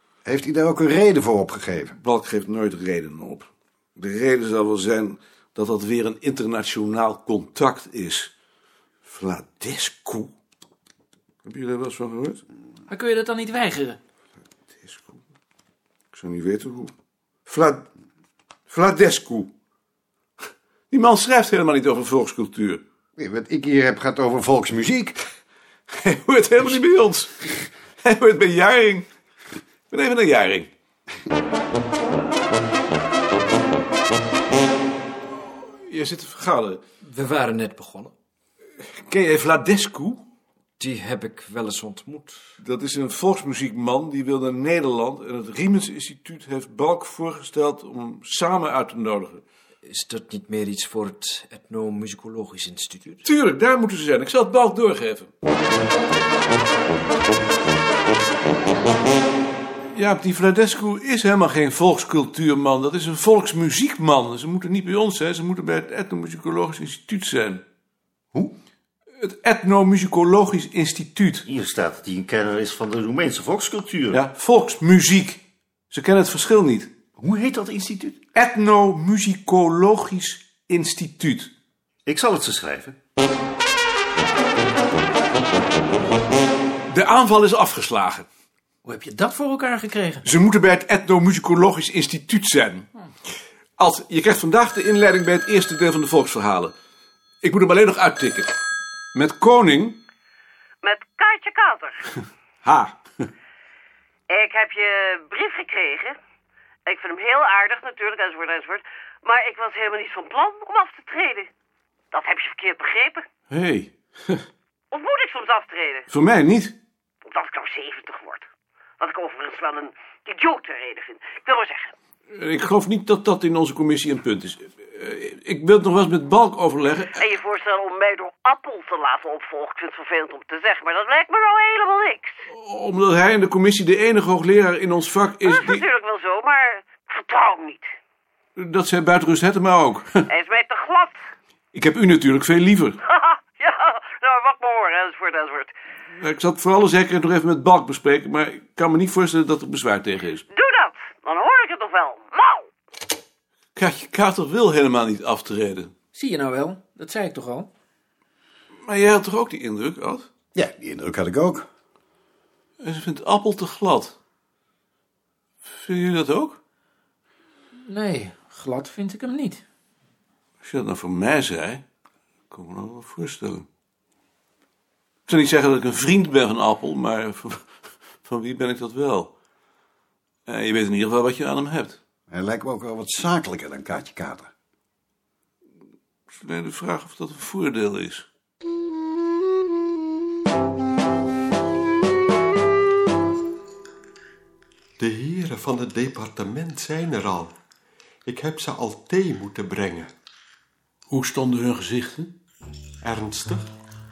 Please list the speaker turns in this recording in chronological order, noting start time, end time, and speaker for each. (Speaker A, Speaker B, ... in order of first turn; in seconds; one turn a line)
Speaker A: 0.2-2.0
Speaker B: 2.0-8.3
Speaker B: 9.0-10.3
Speaker B: 11.4-12.4
Speaker C: 12.9-14.0
Speaker B: 14.7-15.2
Speaker B: 16.1-16.9
Speaker B: 17.5-17.9
Speaker B: 18.7-19.5
Speaker B: 20.9-22.8
Speaker A: 23.2-25.2
Speaker B: 25.9-27.3
Speaker B: 28.0-29.1
Speaker B: 29.9-30.7
Speaker B: 35.7-36.8
Speaker D: 37.0-38.1
Speaker B: 39.1-40.2
Speaker D: 40.8-42.4
Speaker B: 42.6-49.4
Speaker D: 49.8-53.2
Speaker B: 53.2-55.3
Speaker B: 59.9-67.6
Speaker B: 69.2-71.5
Speaker E: 71.5-74.2
Speaker B: 74.1-76.9
Speaker E: 77.2-78.2
Speaker B: 78.3-81.5
Speaker E: 82.1-83.0
Speaker B: 86.9-88.3
Speaker C: 88.8-90.2
Speaker B: 90.2-92.9
Speaker B: 93.8-96.7
Speaker B: 97.4-98.5
Speaker B: 99.1-100.0
Speaker F: 100.8-102.0
Speaker B: 102.6-103.3
Speaker F: 104.3-106.2
Speaker F: 106.9-111.5
Speaker F: 112.1-113.2
Speaker B: 113.5-114.4
Speaker F: 114.9-116.1
Speaker B: 116.1-116.8
Speaker F: 117.3-118.5
Speaker F: 119.0-121.9
Speaker B: 122.3-127.2
Speaker F: 127.2-132.4
Speaker B: 132.5-135.8
Speaker F: 135.4-137.9
Speaker B: 138.6-140.2
Speaker F: 140.3-141.2
Speaker B: 141.7-143.0
Speaker F: 143.1-145.7
Speaker B: 146.2-150.4
Speaker F: 150.5-152.7
Speaker B: 153.8-155.9
Speaker C: 156.1-157.7
Speaker B: 158.8-160.3
Speaker A: 160.6-161.7
Speaker B: 162.8-164.1
Speaker B: 165.7-166.6
Speaker C: 167.8-169.6
Speaker B: 170.6-171.8
Speaker B: 172.5-173.6
Speaker B: 175.3-177.7
Speaker B: 178.2-179.3
Speaker B: 180.5-182.0
Speaker A: 182.3-184.5
Speaker B: 186.4-188.2
Speaker G: 195.0-197.6
Speaker G: 198.2-200.1
Speaker B: 201.1-202.3
Speaker G: 203.0-203.7